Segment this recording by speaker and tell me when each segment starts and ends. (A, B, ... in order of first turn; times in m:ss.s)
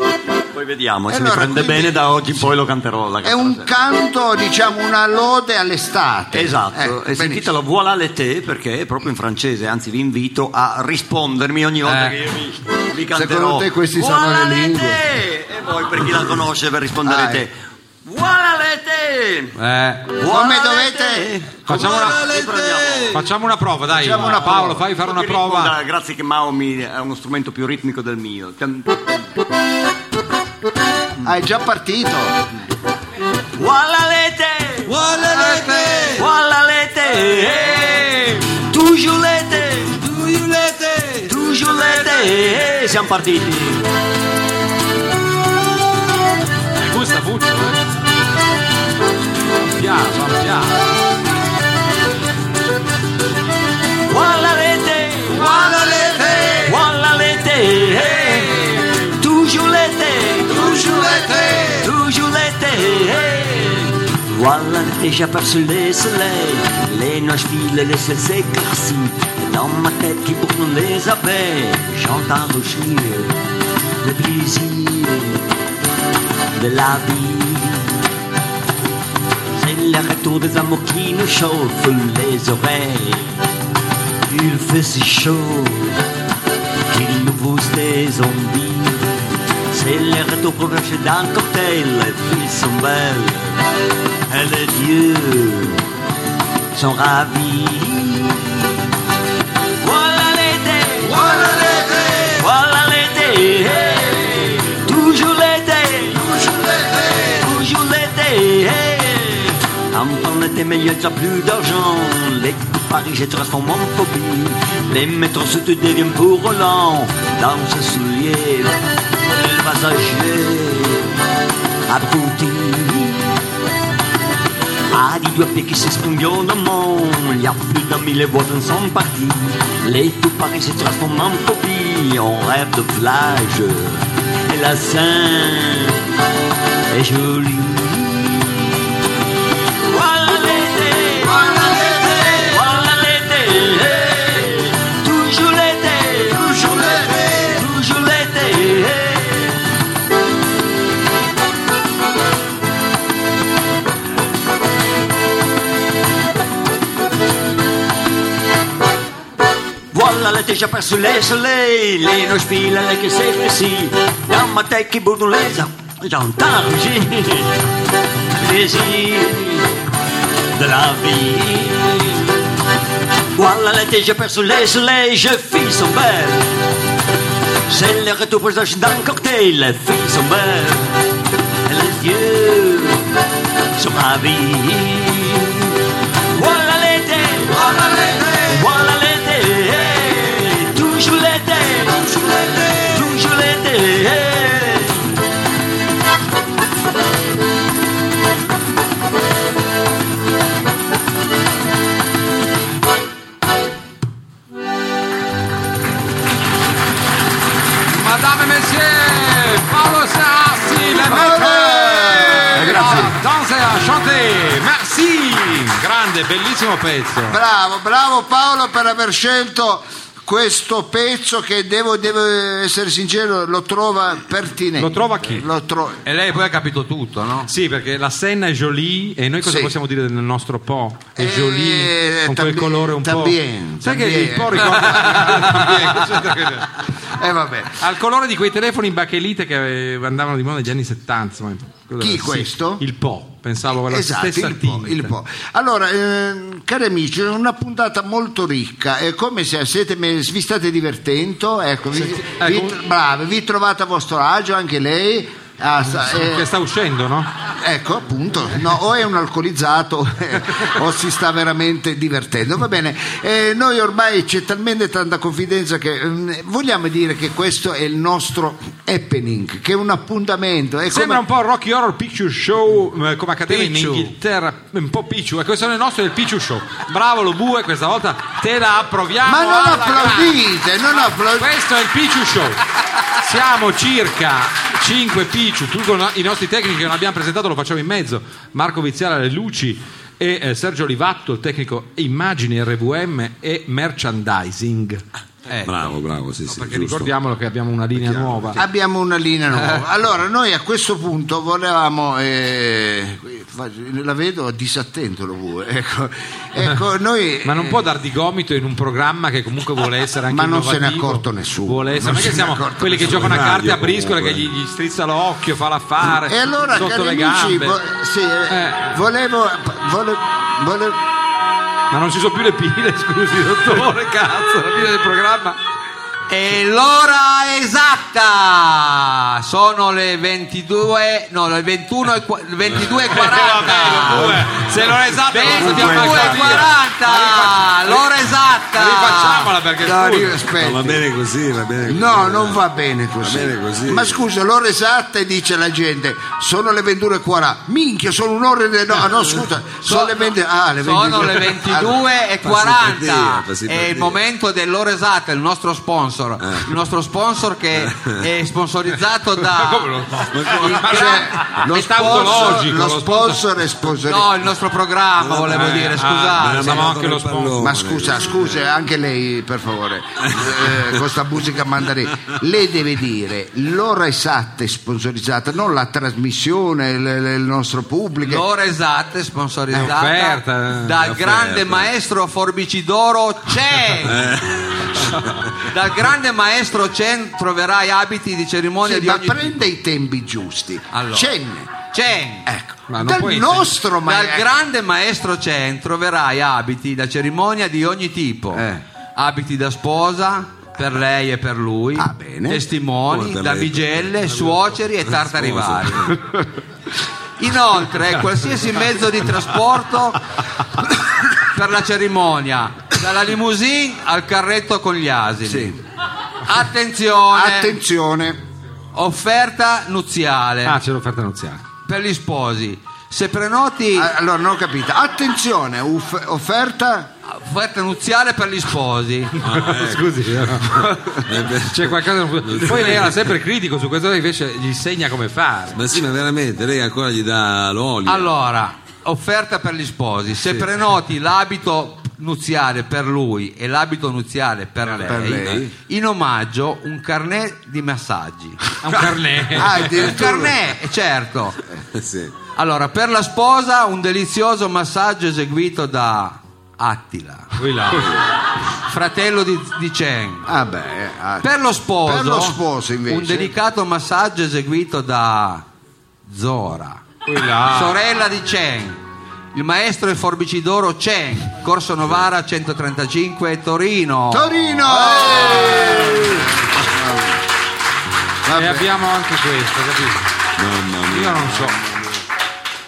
0:00.4-0:03.7 A
0:01.1-0:02.1 B
0:03.2-0:07.5 B
0:06.3-0:17.5 A
0:11.8-0:12.2 C
0:13.1-0:15.0 B
0:17.0-0:17.4 B
0:18.0-0:19.6 A
0:19.6-0:20.1 C
0:20.1-0:23.2 A
0:20.2-0:22.0 B
0:21.7-0:22.2 D
0:22.1-0:22.9 E
0:23.1-0:25.7 D
0:23.9-0:24.8 B
0:24.2-0:29.3 A
0:31.2-0:32.4 B
0:33.6-0:40.4 A
0:34.9-0:36.2 E
0:35.5-0:35.8 C
0:41.2-0:43.8 A
0:46.8-0:47.8 D
0:49.7-0:50.8 D
0:54.1-1:13.3 A
1:00.6-1:01.9 E
1:14.0-1:15.4 A
1:16.5-1:18.0 A
1:19.5-1:23.4 A
1:24.3-1:26.0 A
1:26.9-1:33.6 A
1:34.3-1:35.8 A
1:36.7-1:38.9 A
1:39.8-1:58.8 A
1:41.2-1:42.1 E
1:59.3-2:01.1 A
2:01.9-2:03.4 A
2:04.9-2:16.0 A
2:16.9-2:19.1 A
2:19.8-2:29.6 A
2:39.9-2:47.6 A
2:48.4-2:49.7 A
2:50.5-2:52.4 A
2:53.3-2:56.5 A
2:57.7-3:01.0 A
3:01.6-3:03.0 A
3:03.8-3:05.8 A
3:06.3-3:15.1 A
3:27.9-3:37.4 D
3:31.0-3:33.1 B
3:32.6-3:33.1 A
3:37.3-3:46.0 B
3:44.8-3:45.4 D
3:46.0-3:47.5 C
3:47.5-3:56.7 D
3:49.4-3:49.7 B
3:51.2-3:56.0 B
3:57.0-3:57.8 B
3:57.8-4:05.1 D
4:02.0-4:02.8 B
4:03.7-4:16.5 B
4:12.0-4:12.8 D
4:15.9-4:17.3 D
4:17.6-4:31.2 B
4:30.9-4:40.4 D
4:33.5-4:34.1 C
4:39.2-4:41.5 B
4:41.4-4:42.6 D
4:43.2-4:55.0 D
4:55.5-4:55.7 C
4:55.6-4:57.1 E
4:56.5-4:58.6 D
4:58.0-4:58.4 E
4:58.5-5:07.8 B
4:59.5-4:59.8 C
5:07.4-5:17.8 D
5:10.3-5:13.4 B
5:13.0-5:14.4 E
5:16.1-5:21.0 B
5:18.5-5:19.0 D
5:21.9-5:25.6 D
5:26.3-5:34.5 C
5:32.6-5:36.5 E
5:33.1-5:37.4 D
5:35.3-5:39.5 C
5:36.3-5:36.6 B
5:37.2-5:37.6 B
5:38.7-5:40.4 D
5:39.8-5:41.0 B
5:40.6-5:42.6 E
5:41.8-5:52.0 B
5:43.2-5:44.2 E
5:49.8-6:00.0 C
5:52.4-5:54.2 E
5:56.4-5:56.7 E
5:57.8-5:58.2 E
5:59.5-6:03.4 D
6:00.3-6:01.0 E
6:00.5-6:04.3 B
6:00.5-6:01.5 C
6:02.2-6:02.5 C
6:04.0-6:06.9 C
6:05.2-6:08.6 E
6:05.5-6:07.6 D
6:07.6-6:18.4 B
6:10.3-6:10.9 E
6:18.2-6:24.3 C
6:19.7-6:21.0 D
6:21.0-6:21.9 E
6:24.0-6:25.6 E
6:25.6-6:29.6 C
6:28.8-6:31.7 B
6:30.9-6:31.3 C
6:31.9-6:32.5 C
6:32.4-6:34.5 B
6:32.9-6:33.8 D
6:34.0-6:46.1 C
6:38.5-6:38.8 B
6:42.0-6:42.6 B
6:43.1-6:46.2 E
6:46.1-6:46.4 B
6:47.4-6:50.2 C
6:51.3-6:55.7 C
6:55.4-6:55.8 B
6:56.4-6:57.8 C
6:57.3-6:58.4 B
6:58.9-7:00.8 C
7:00.6-7:01.6 D
7:01.9-7:04.1 C
7:03.9-7:07.1 B
7:07.3-7:09.4 C
7:09.4-7:13.3 E
7:09.4-7:15.8 D
7:15.7-7:18.3 E
7:18.0-7:28.6 C
7:25.0-7:25.7 B
7:25.4-7:25.6 E
7:28.8-7:29.9 D
7:29.5-7:30.6 B
7:29.7-7:31.6 C
7:31.9-7:32.3 E
7:32.6-7:37.5 C
7:37.6-7:38.2 D
7:38.9-7:40.5 C
7:40.4-7:41.5 B
7:41.4-7:45.6 C
7:42.0-7:43.5 B
7:46.3-7:49.0 C
7:47.2-7:48.0 D
7:49.5-7:56.4 C
7:54.3-7:57.4 B
7:58.4-7:58.9 B
7:58.5-8:00.3 D
8:00.6-8:01.9 E
8:01.1-8:01.8 D